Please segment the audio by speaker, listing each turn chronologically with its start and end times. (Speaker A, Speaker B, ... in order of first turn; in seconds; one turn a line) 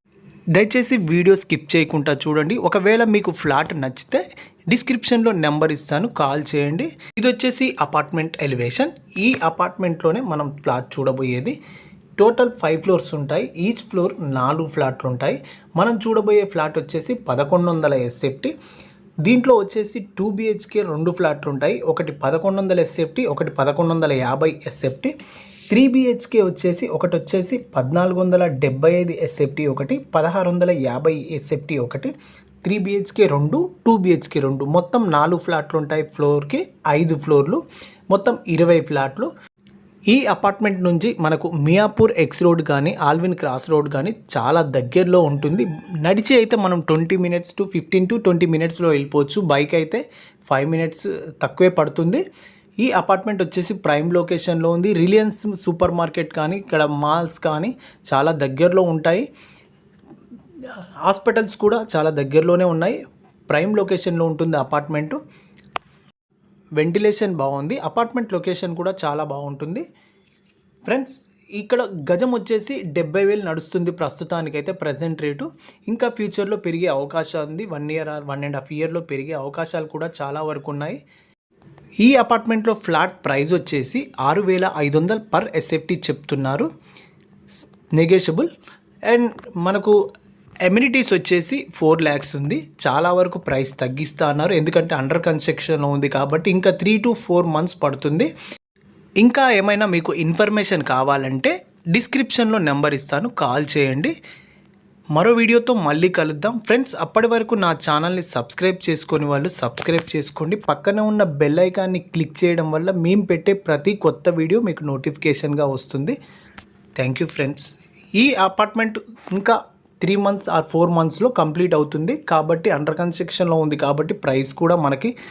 Speaker A: 0.5-11.5
Speaker A: 12.2-18.5
Speaker A: 19.2-25.1
Speaker A: 25.7-32.1
Speaker A: 32.6-37.6
Speaker A: 38.1-39.3
Speaker A: 40.1-52.2
Speaker A: 52.8-59.2
Speaker A: 61.0-63.0
Speaker A: 63.5-65.2
Speaker A: 66.8-69.8
Speaker A: 70.9-81.0
Speaker A: 82.0-86.7
Speaker A: 88.0-88.5
Speaker A: 89.1-89.9
Speaker A: 90.7-98.3
Speaker A: 99.2-104.1
Speaker A: 105.1-116.2
Speaker A: 117.0-125.1